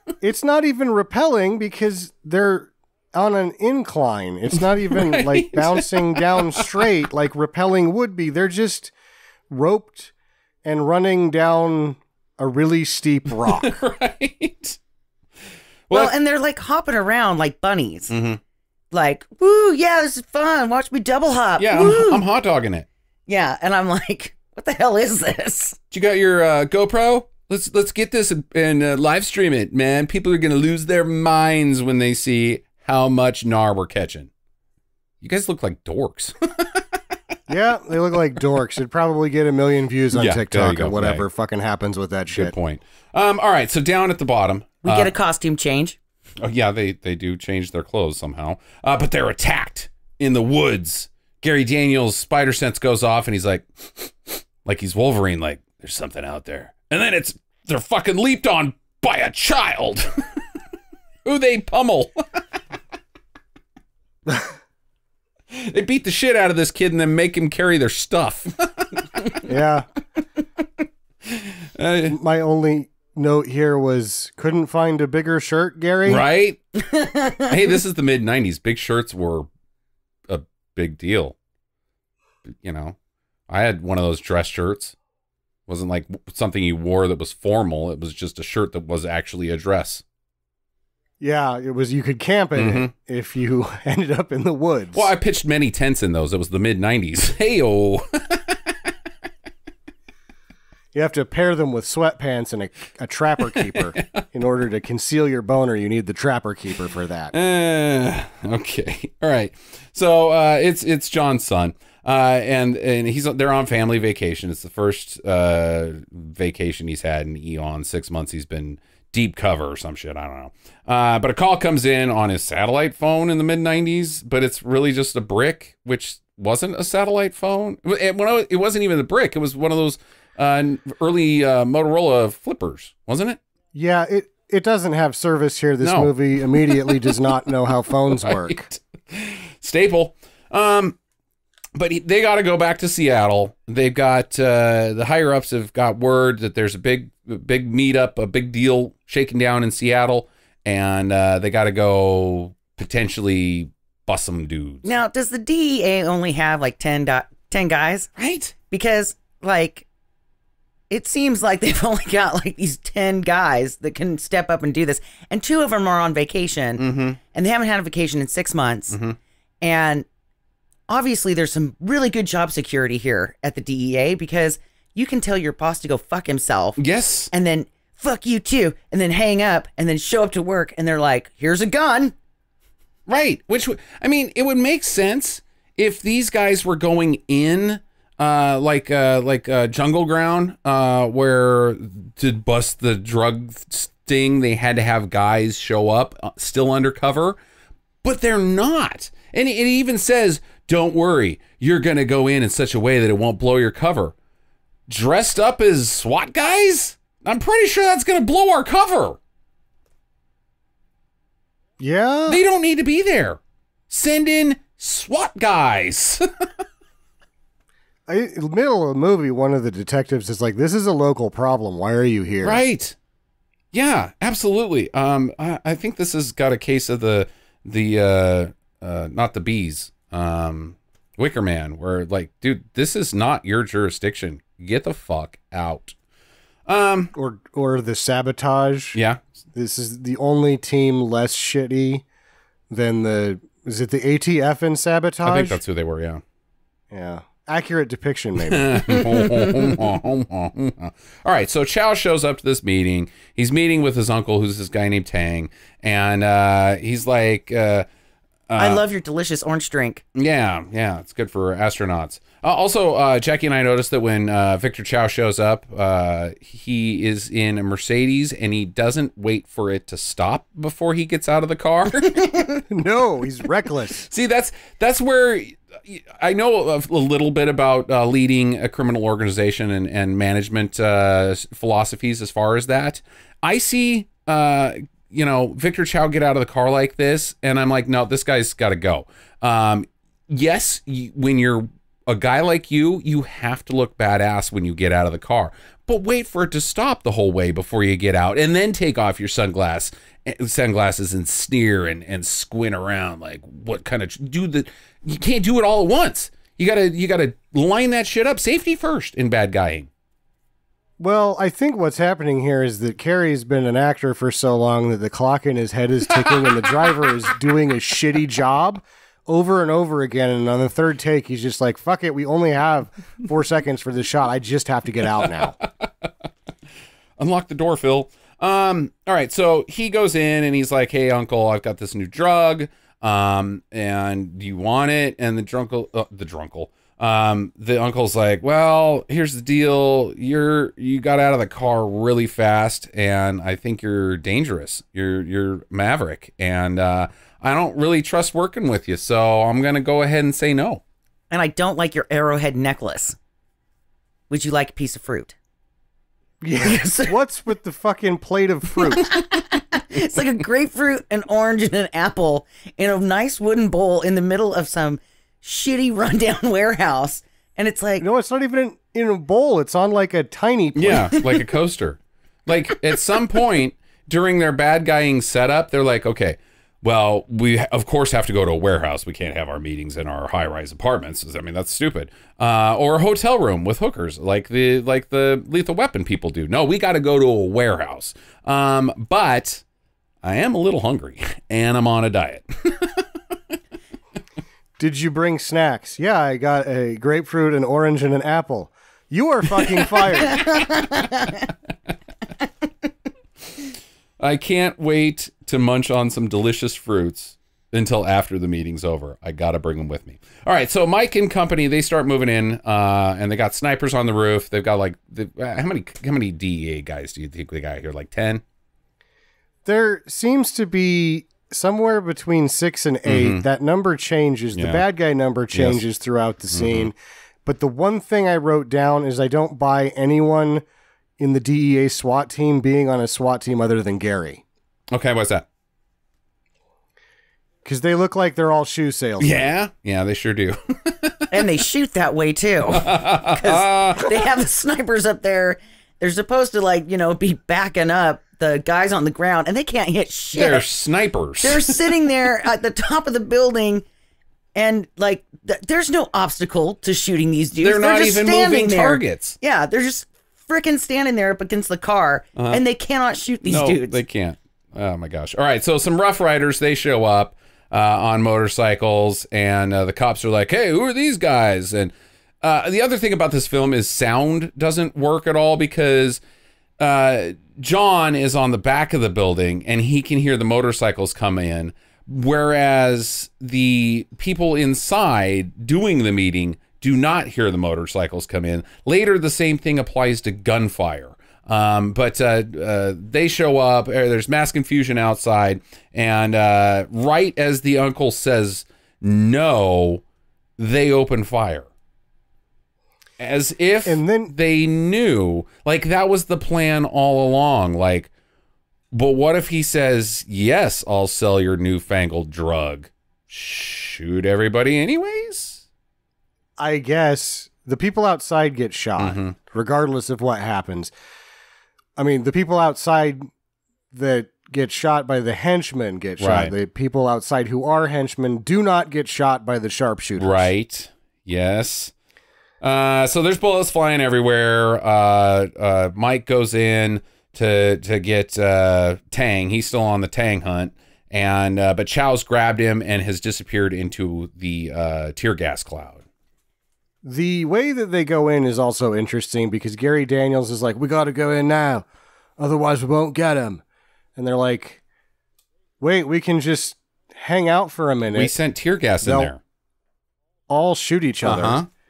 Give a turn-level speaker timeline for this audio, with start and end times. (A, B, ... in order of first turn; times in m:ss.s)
0:00.2-0:08.9 A
0:04.9-0:06.6 B
0:09.5-0:10.1 A
0:10.6-0:13.8 A
0:13.5-0:14.8 B
0:15.9-0:18.1 C
0:18.1-0:18.4 B
0:18.9-0:22.2 C
0:21.6-0:22.9 B
0:23.3-0:25.8 C
0:25.9-0:34.3 B
0:35.2-0:36.8 B
0:37.5-0:42.5 A
0:40.1-0:41.2 B
0:42.3-0:45.1 B
0:44.8-0:46.0 C
0:46.4-1:00.4 B
1:01.2-1:02.4 B
1:05.5-1:09.4 B
1:09.5-1:09.9 A
1:11.3-1:12.2 B
1:12.1-1:16.2 A
1:16.1-1:19.5 B
1:16.8-1:17.5 C
1:20.3-1:21.4 B
1:22.5-1:23.0 B
1:23.5-1:25.0 B
1:25.7-1:30.0 B
1:31.2-1:35.1 A
1:32.6-1:32.9 B
1:34.9-1:38.8 B
1:40.9-1:47.3 A
1:43.8-1:44.2 B
1:47.3-2:13.4 B
2:13.7-2:18.6 A
2:15.8-2:17.2 B
2:18.1-2:21.0 B
2:21.8-2:34.9 B
2:34.8-2:38.1 C
2:38.2-2:38.6 B
2:38.7-2:39.9 C
2:40.9-2:49.0 C
2:46.8-2:47.2 B
2:48.9-2:49.2 B
2:49.6-2:50.1 C
2:50.9-2:56.8 C
2:56.8-2:57.3 B
2:57.3-3:02.1 C
3:03.1-3:17.4 B
3:18.0-3:24.1 B
3:24.9-3:29.2 B
3:31.8-3:32.4 A
3:32.3-3:33.4 B
3:33.9-3:36.2 B
3:38.1-3:42.6 A
3:42.4-3:43.0 B
3:43.7-3:56.0 B
3:56.7-3:57.1 B
3:57.1-3:59.0 A
3:59.0-3:59.2 B
3:59.5-4:02.1 A
4:02.7-4:05.6 A
4:05.2-4:06.2 B
4:06.9-4:09.2 A
4:08.4-4:17.9 B
4:08.9-4:09.7 C
4:18.5-4:18.8 B
4:18.6-4:20.0 C
4:20.2-4:32.3 B
4:32.1-4:32.6 C
4:32.7-4:34.1 A
4:34.1-5:09.9 B
5:11.0-5:25.6 A
5:16.3-5:17.1 B
5:27.2-5:50.8 B
5:51.3-5:53.2 C
5:54.3-5:55.4 C
5:56.4-5:59.1 A
5:56.6-5:57.1 C
5:59.0-6:08.1 C
6:08.0-6:11.2 A
6:10.8-6:29.6 B
6:30.2-6:33.0 B
6:34.8-6:40.4 A
6:40.2-6:41.5 C
6:44.2-6:58.4 B
6:59.6-7:10.6 A
7:03.1-7:03.4 B
7:04.6-7:04.8 B
7:05.5-7:05.8 B
7:06.5-7:06.9 B
7:11.2-7:14.4 A
7:14.9-7:15.5 B
7:17.6-7:19.5 A
7:19.2-7:21.5 B
7:21.3-7:30.7 C
7:22.7-7:24.3 B
7:30.3-7:32.0 B
7:31.4-7:33.8 C
7:34.6-7:44.0 C
7:37.6-7:39.4 B
7:42.4-7:42.6 B
7:43.5-7:56.2 B
7:56.8-8:20.0 B
8:20.6-8:21.7 B
8:23.2-8:28.1 B
8:23.8-8:24.3 A
8:28.9-8:35.6 B
8:36.6-8:40.9 A
8:39.0-8:39.4 B
8:42.0-8:43.3 A
8:43.9-8:50.5 A
8:46.2-8:46.5 B
8:50.2-8:51.9 B
8:52.6-9:06.0 B
9:07.0-9:11.9 A
9:12.4-9:13.6 A
9:14.2-9:14.8 A
9:15.8-9:18.3 A
9:18.1-9:19.4 B
9:19.0-9:19.3 A
9:20.5-9:21.6 A
9:21.2-9:21.7 B